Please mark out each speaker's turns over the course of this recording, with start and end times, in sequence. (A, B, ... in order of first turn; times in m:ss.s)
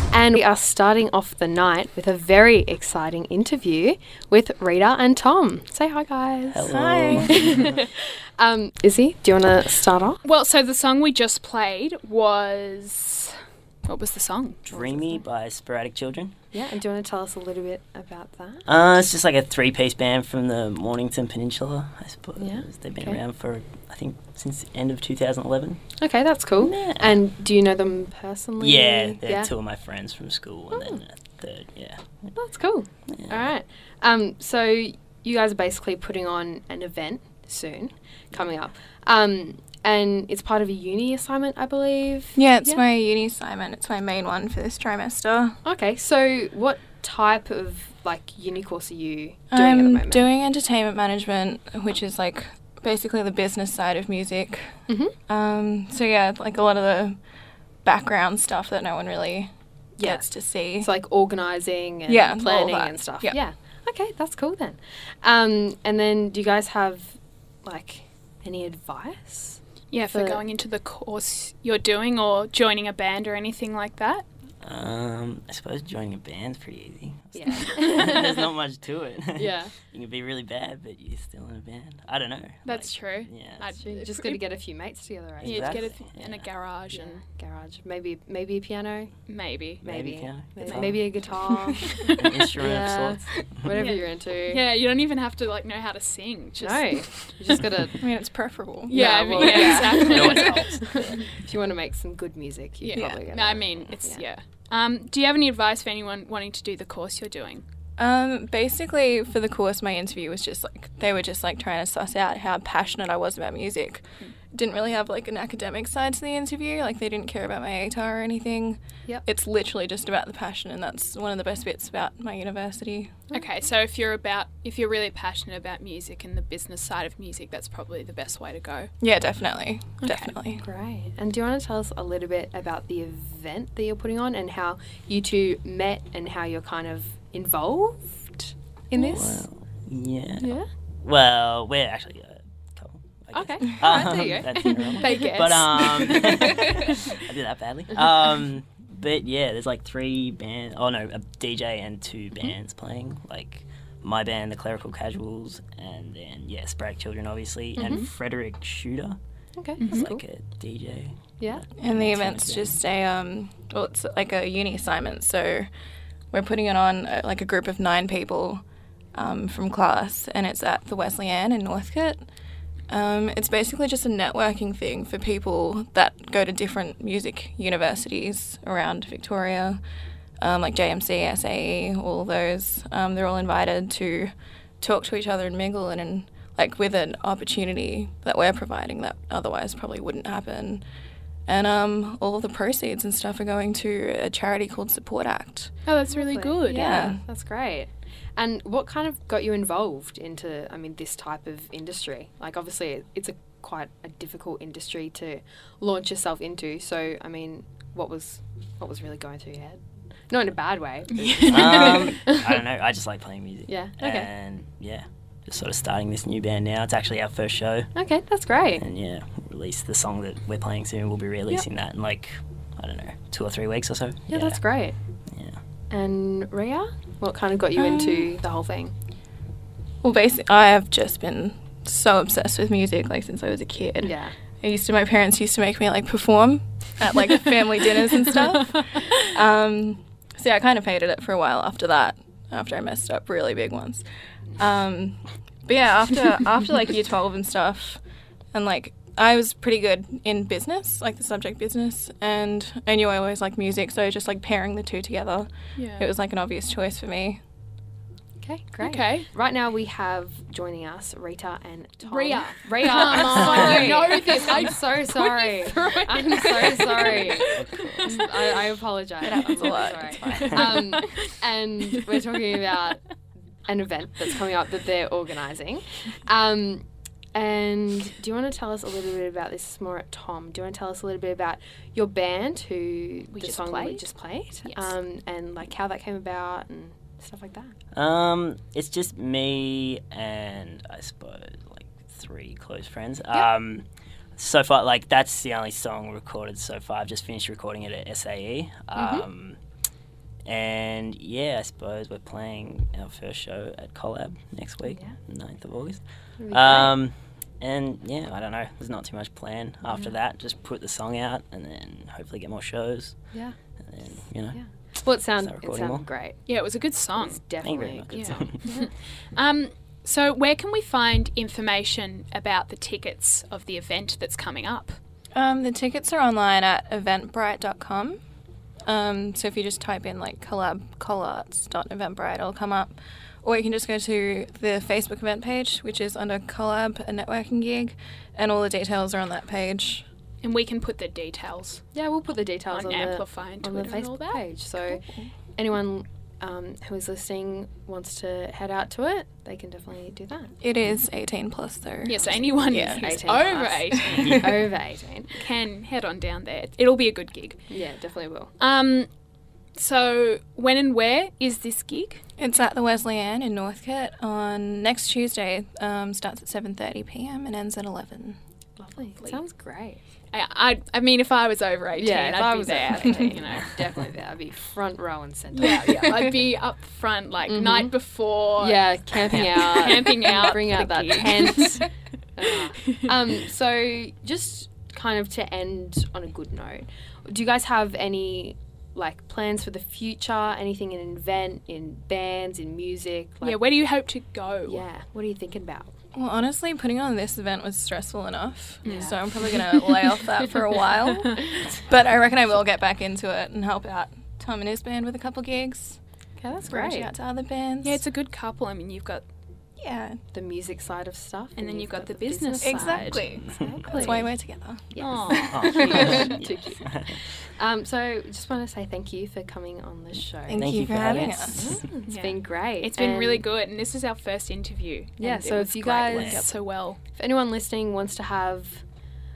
0:00.1-0:06.7 A
0:06.5-0:07.8 B
0:06.7-0:07.3 C
0:07.3-0:07.9 A
0:08.4-0:10.2 A
0:10.2-0:14.7 D
0:14.7-0:16.4 B
0:14.7-0:15.2 A
0:16.5-0:18.7 A
0:18.7-0:25.8 B
0:22.4-0:23.2 A
0:26.0-0:29.5 A
0:26.6-0:27.2 B
0:28.6-0:32.3 B
0:30.7-0:31.0 A
0:32.3-0:42.8 A
0:33.1-0:33.5 B
0:42.4-0:45.6 C
0:45.6-0:50.3 A
0:49.5-0:57.2 C
0:54.9-0:55.2 A
0:57.8-1:00.9 C
1:00.0-1:10.4 A
1:02.1-1:03.4 C
1:09.9-1:14.2 D
1:14.6-1:23.7 B
1:17.3-1:18.5 A
1:19.4-1:19.7 A
1:22.6-1:24.4 D
1:23.8-1:26.0 A
1:25.4-1:26.5 B
1:25.4-1:27.2 D
1:26.9-1:29.1 A
1:29.3-1:29.8 D
1:29.8-1:33.8 B
1:29.8-1:34.6 A
1:30.6-1:30.9 D
1:31.7-1:32.4 D
1:33.7-1:37.3 D
1:36.6-1:38.0 A
1:38.0-1:40.0 C
1:38.9-1:41.0 D
1:38.9-1:44.2 A
1:39.6-1:41.3 B
1:42.8-1:47.6 D
1:43.0-1:43.2 C
1:48.0-2:03.2 C
2:03.3-2:08.9 D
2:09.0-2:10.6 C
2:10.0-2:10.3 D
2:10.4-2:19.5 A
2:18.9-2:39.2 B
2:20.4-2:20.7 A
2:23.3-2:25.3 A
2:24.6-2:27.1 D
2:37.8-2:38.1 A
2:39.6-2:40.2 A
2:39.8-2:40.1 D
2:39.9-2:42.8 B
2:41.8-2:45.7 C
2:46.3-2:48.6 C
2:49.2-2:52.2 C
2:52.9-2:59.8 C
3:00.4-3:10.8 C
3:11.5-3:15.7 C
3:15.9-3:17.1 D
3:16.1-3:32.6 A
3:16.7-3:17.2 C
3:31.1-3:32.2 D
3:31.4-3:37.9 B
3:33.7-3:34.3 A
3:38.0-3:38.8 A
3:38.8-3:44.6 B
3:44.3-3:45.0 A
3:45.3-3:45.6 B
3:45.9-3:48.9 A
3:47.8-3:48.3 C
3:50.0-4:04.0 C
3:54.0-3:54.4 A
4:04.6-4:08.0 C
4:08.5-4:17.4 C
4:15.8-4:16.1 D
4:18.4-4:33.0 A
4:18.8-4:19.3 D
4:22.1-4:28.5 D
4:27.0-4:28.2 B
4:29.2-4:30.8 C
4:30.3-4:31.3 D
4:33.7-4:47.7 A
4:43.3-4:44.1 D
4:44.6-4:45.0 D
4:47.9-4:53.8 B
4:54.4-4:59.6 B
4:59.0-4:59.3 A
5:00.4-5:13.2 B
5:04.9-5:05.2 A
5:06.4-5:07.0 A
5:13.8-5:14.6 B
5:14.5-5:16.4 A
5:15.3-5:16.0 B
5:16.5-5:17.4 D
5:17.2-5:18.9 A
5:17.6-5:18.6 B
5:18.1-5:25.0 D
5:25.3-5:28.2 C
5:28.9-5:40.1 C
5:40.4-5:41.8 D
5:41.9-5:45.0 A
5:42.7-5:44.4 D
5:44.9-5:45.3 C
5:45.6-5:50.6 A
5:50.6-5:53.2 C
5:52.1-5:54.7 D
5:52.1-5:55.5 A
5:54.2-5:54.5 B
5:55.4-5:57.6 D
5:57.7-5:58.5 A
5:58.6-5:59.1 D
5:59.8-6:02.2 D
6:02.4-6:08.4 C
6:08.8-6:10.0 A
6:10.3-6:13.8 D
6:11.9-6:16.2 A
6:15.5-6:21.9 D
6:17.5-6:18.0 A
6:18.6-6:33.6 A
6:33.4-6:34.9 D
6:34.6-6:35.9 A
6:36.1-6:46.0 C
6:38.8-6:39.2 D
6:38.8-6:39.9 A
6:46.4-6:47.1 A
6:46.6-6:48.0 C
6:47.8-6:49.2 D
6:49.8-6:50.2 C
6:50.3-6:54.4 A
6:51.6-6:53.4 D
6:52.6-6:54.9 C
6:53.3-6:54.1 B
6:54.9-7:03.4 A
6:55.0-6:56.4 D
6:55.3-6:57.2 B
7:00.5-7:01.8 C
7:00.5-7:01.8 B
7:02.1-7:07.0 D
7:05.2-7:06.5 A
7:06.1-7:06.5 B
7:07.1-7:08.8 A